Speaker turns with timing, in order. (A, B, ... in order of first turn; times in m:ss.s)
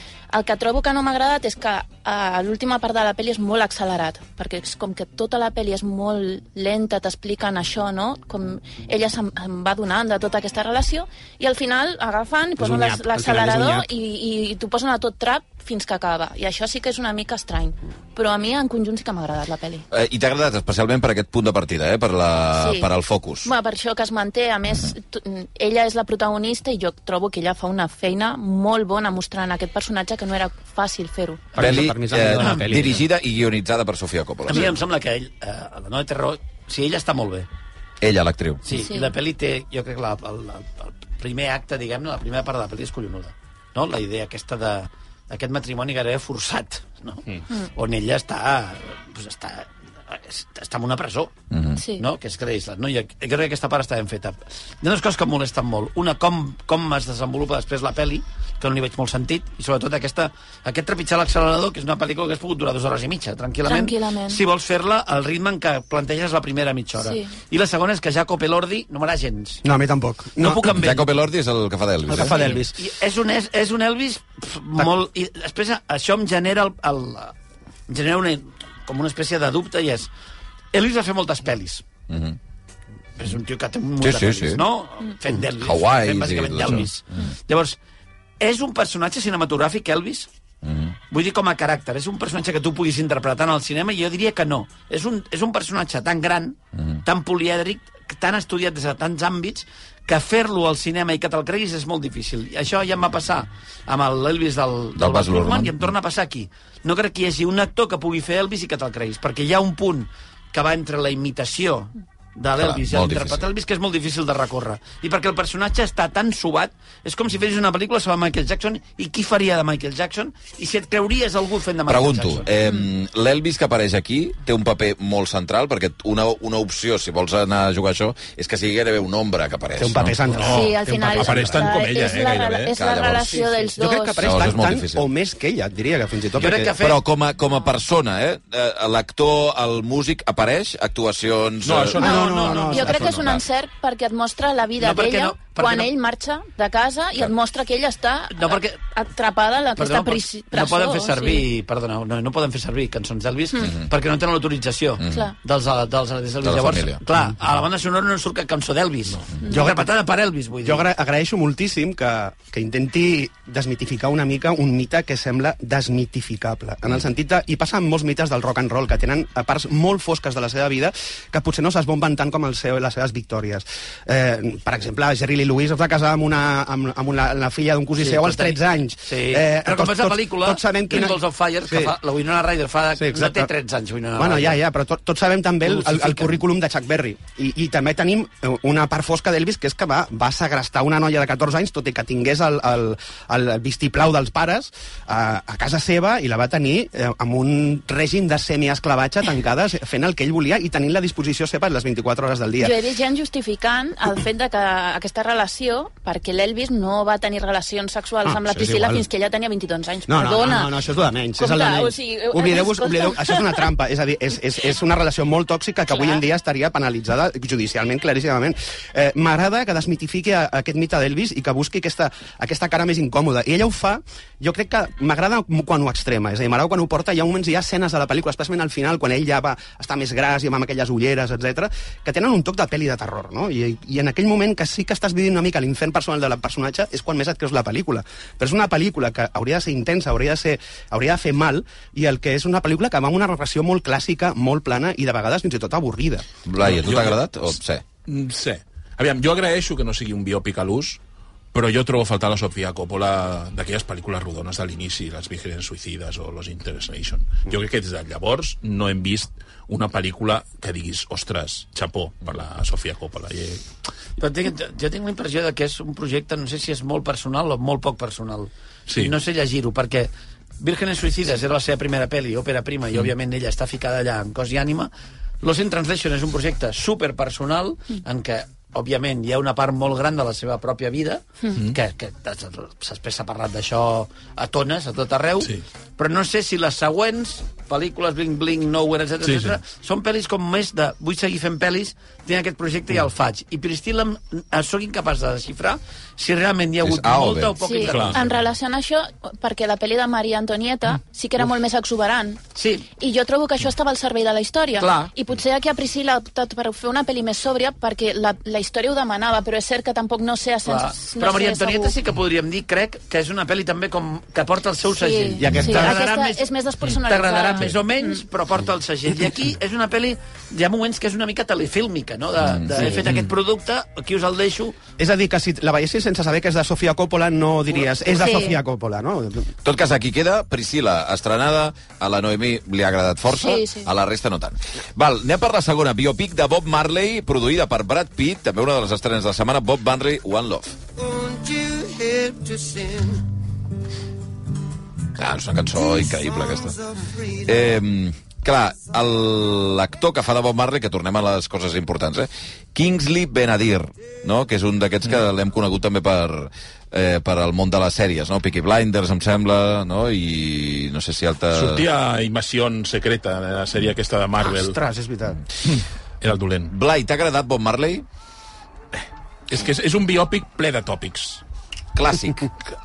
0:00.3-0:19.9 A
0:12.6-0:13.9 B
0:19.9-0:23.5 C
0:22.5-0:22.9 A
0:23.4-0:31.6 A
0:31.5-0:33.0 B
0:31.6-0:34.7 C
0:32.4-0:33.0 D
0:34.5-0:37.5 D
0:38.0-0:38.6 C
0:38.6-0:51.3 D
0:38.7-0:39.1 A
0:51.5-0:51.8 C
0:51.8-0:52.0 A
0:52.0-1:09.6 D
1:03.6-1:04.4 A
1:07.0-1:07.3 A
1:09.6-1:10.8 B
1:10.4-1:11.1 D
1:10.6-1:12.6 C
1:12.1-1:12.8 B
1:12.2-1:17.4 D
1:17.9-1:20.1 D
1:20.7-1:21.8 D
1:22.1-1:22.4 C
1:23.2-1:27.8 D
1:24.0-1:24.6 C
1:25.4-1:26.9 C
1:28.4-1:30.3 D
1:30.6-1:31.0 C
1:31.1-2:02.5 D
1:45.0-1:45.9 C
1:52.6-1:53.5 C
2:01.9-2:10.2 C
2:09.8-2:11.8 B
2:10.3-2:12.8 E
2:10.4-2:14.4 A
2:12.8-2:13.4 C
2:13.4-2:16.8 B
2:14.2-2:15.1 C
2:16.4-2:17.0 D
2:16.5-2:22.0 C
2:21.6-2:22.6 E
2:22.0-2:23.3 B
2:22.0-2:23.1 D
2:22.6-2:31.5 A
2:23.0-2:23.4 C
2:24.8-2:25.9 D
2:28.3-2:28.8 D
2:29.8-2:40.8 D
2:35.0-2:35.3 C
2:35.1-2:35.4 A
2:36.4-2:37.0 C
2:39.5-2:39.9 B
2:40.6-3:01.9 B
2:58.0-3:04.6 D
3:03.0-3:03.5 B
3:04.2-3:22.8 B
3:05.6-3:06.4 D
3:22.6-3:30.8 A
3:28.2-3:29.1 B
3:30.1-4:06.3 B
3:31.4-3:33.7 A
3:35.9-3:36.2 A
4:06.5-4:07.8 C
4:06.6-4:07.4 E
4:08.1-4:11.0 E
4:11.5-4:23.7 E
4:24.2-4:58.4 D
4:28.9-4:29.1 E
4:49.2-4:49.6 E
4:56.8-4:57.6 C
4:57.6-5:12.0 A
4:57.8-4:58.2 E
5:02.6-5:02.9 D
5:04.8-5:05.1 D
5:10.6-5:16.5 D
5:15.0-5:18.2 A
5:15.4-5:16.0 B
5:17.0-5:24.8 D
5:22.4-5:22.9 C
5:25.0-5:29.5 B
5:28.2-5:28.6 A
5:29.6-5:40.8 C
5:33.3-5:33.9 A
5:45.2-5:46.8 C
5:47.3-6:01.9 C
6:01.5-6:04.8 E
6:04.4-6:05.4 B
6:05.6-6:06.7 E
6:06.7-6:08.1 C
6:09.5-6:11.4 E
6:12.0-6:12.5 C